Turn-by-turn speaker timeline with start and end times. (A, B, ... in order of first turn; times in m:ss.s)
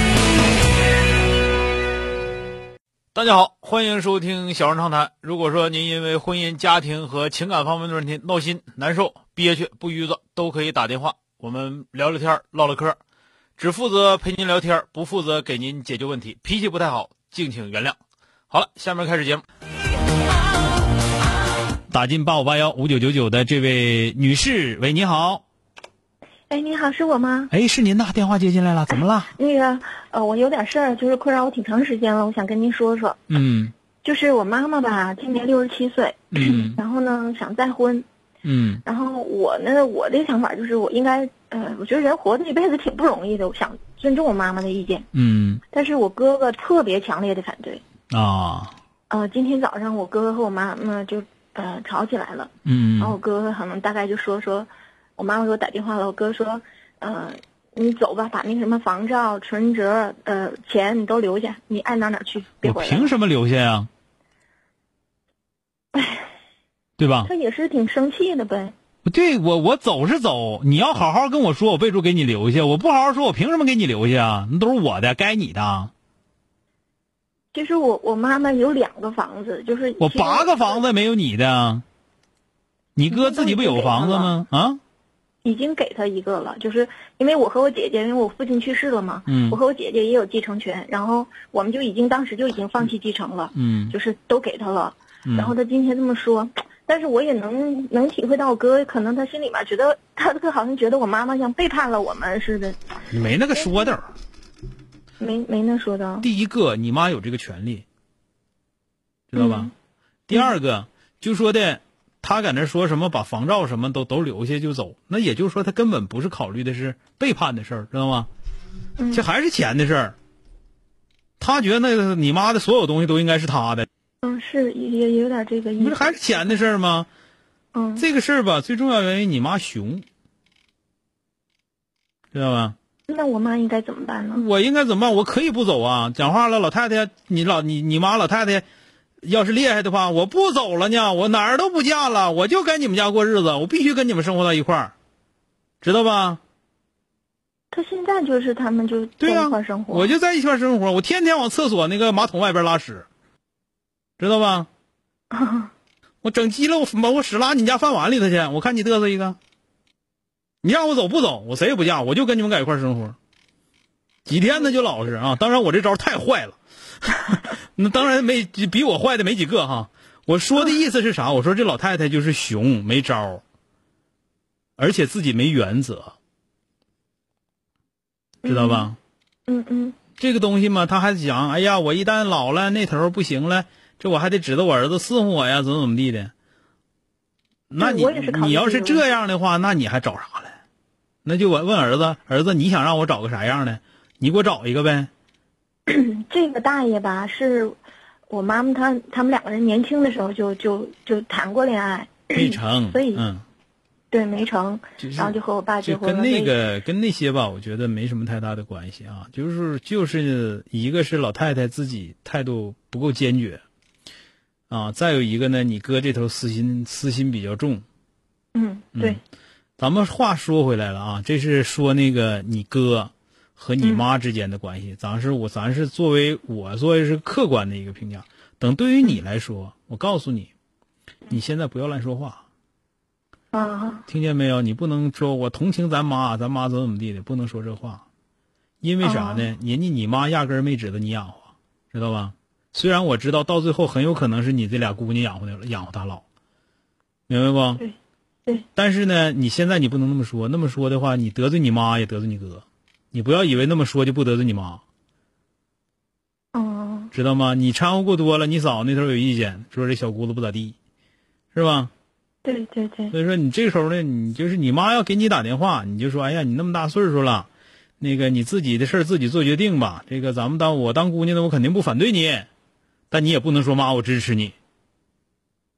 0:03.1-0:13.0 A
0:13.6-0:18.0 A
0:18.5-0:19.4 A
0:21.9-0:25.4 A
0:26.5-0:27.5 B
0:27.5-0:29.3 A
0:29.3-0:33.2 B
0:33.3-0:33.7 A
0:34.0-0:38.0 B
0:36.3-0:36.8 A
0:38.4-0:38.8 A
0:38.8-0:45.0 B
0:45.1-0:45.6 A
0:45.7-0:47.8 B
0:48.1-0:48.7 A
0:49.1-1:03.1 B
0:52.6-0:53.2 A
1:02.6-1:03.9 A
1:05.9-1:06.3 B
1:07.0-1:07.3 A
1:07.2-1:08.7 B
1:09.0-1:15.9 A
1:17.5-1:20.8 B
1:20.0-1:21.8 A
1:23.0-1:24.8 A
1:23.1-1:24.3 B
1:25.4-1:42.8 B
1:29.3-1:29.6 A
1:33.5-1:33.9 A
1:35.2-1:35.5 A
1:43.1-1:44.1 A
1:43.5-1:43.9 B
1:45.2-1:46.3 B
1:46.2-1:47.8 A
1:49.3-1:49.7 A
1:49.3-1:49.7 B
1:50.3-1:58.3 A
1:59.0-1:59.2 B
1:59.1-2:00.2 A
2:01.4-2:03.9 A
2:04.2-2:06.7 B
2:05.8-2:07.1 A
2:07.7-2:08.0 B
2:08.0-2:10.0 A
2:12.3-2:12.7 A
2:13.1-2:14.4 B
2:14.3-2:18.6 A
2:19.2-2:24.9 A
2:25.8-2:26.4 A
2:27.7-2:30.1 B
2:29.2-2:33.1 A
2:34.2-2:34.7 A
2:35.3-2:35.7 B
2:36.2-2:39.4 A
2:40.6-2:43.2 A
2:44.2-2:53.4 A
2:54.8-2:56.1 A
2:58.4-2:58.9 B
2:58.4-2:59.0 A
2:59.5-3:00.0 B
3:00.2-3:06.3 A
3:07.7-3:10.5 A
3:07.8-3:09.0 B
3:11.2-3:15.1 A
3:15.9-3:17.8 B
3:18.3-3:23.2 B
3:22.3-3:23.4 A
3:24.1-3:26.6 B
3:25.0-3:33.6 A
3:34.7-3:37.8 A
3:38.5-3:39.2 B
3:38.9-3:39.2 A
3:39.8-3:50.5 A
3:43.8-3:44.0 B
3:51.3-3:52.4 A
3:53.5-3:54.0 B
3:54.1-3:58.0 A
3:58.8-4:06.2 A
3:59.0-3:59.5 B
4:07.3-4:07.8 A
4:08.8-4:14.8 A
4:16.5-4:17.1 B
4:17.1-4:20.7 A
4:21.5-4:21.9 A
4:22.4-4:23.1 B
4:23.1-4:27.5 A
4:28.0-4:32.5 A
4:33.1-4:34.5 A